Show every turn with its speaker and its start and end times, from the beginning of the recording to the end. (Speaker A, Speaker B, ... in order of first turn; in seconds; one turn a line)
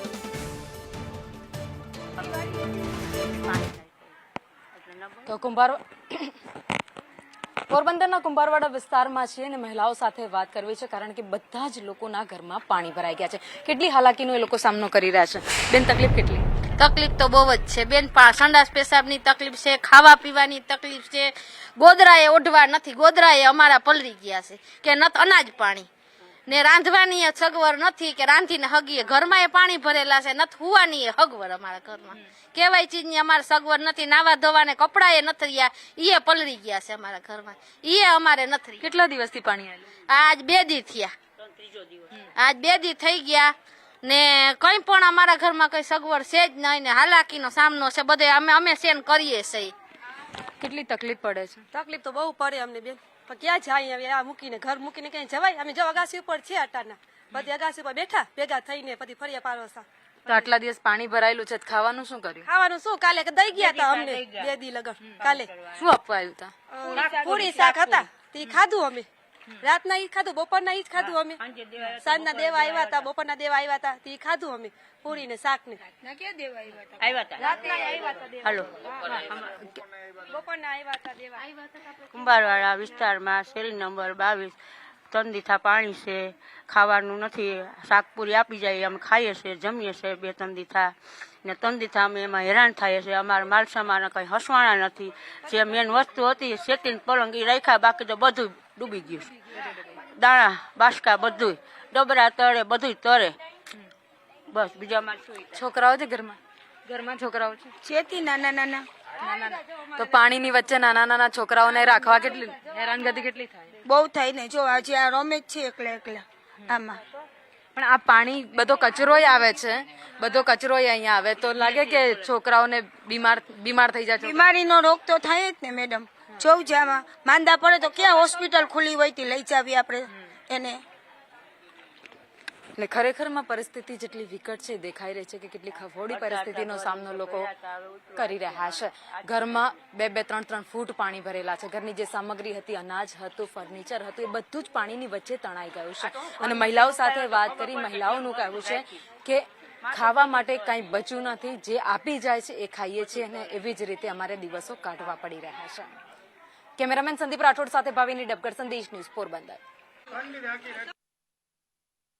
Speaker A: 3.1-4.1
Speaker A: 4.7-5.3
Speaker B: 5.3-6.3
Speaker B: 7.7-16.4
Speaker C: 16.8-25.9
Speaker C: 26.5-38.9
Speaker B: 38.8-39.9
Speaker C: 40.1-41.1
Speaker A: 41.5-42.1
Speaker C: 42.3-49.7
Speaker B: 50.6-51.6
Speaker D: 51.7-59.8
Speaker B: 60.3-62.5
Speaker D: 62.5-65.5
Speaker A: 63.5-64.5
Speaker A: 65.1-65.8
Speaker B: 65.8-66.5
Speaker D: 66.7-69.1
Speaker A: 66.9-67.8
Speaker D: 69.6-71.4
Speaker A: 70.9-73.1
Speaker D: 72.0-75.8
Speaker A: 77.0-79.6
Speaker D: 77.4-78.4
Speaker D: 80.3-81.4
Speaker A: 82.1-84.5
Speaker A: 85.1-99.3
Speaker A: 100.1-103.3
Speaker A: 104.5-105.6
Speaker B: 105.5-107.7
Speaker E: 107.8-108.9
Speaker B: 109.2-113.8
Speaker E: 113.8-117.0
Speaker B: 117.7-124.4
Speaker E: 124.2-130.8
Speaker B: 132.8-137.5
Speaker A: 136.1-138.2
Speaker B: 138.1-155.9
Speaker B: 156.8-159.6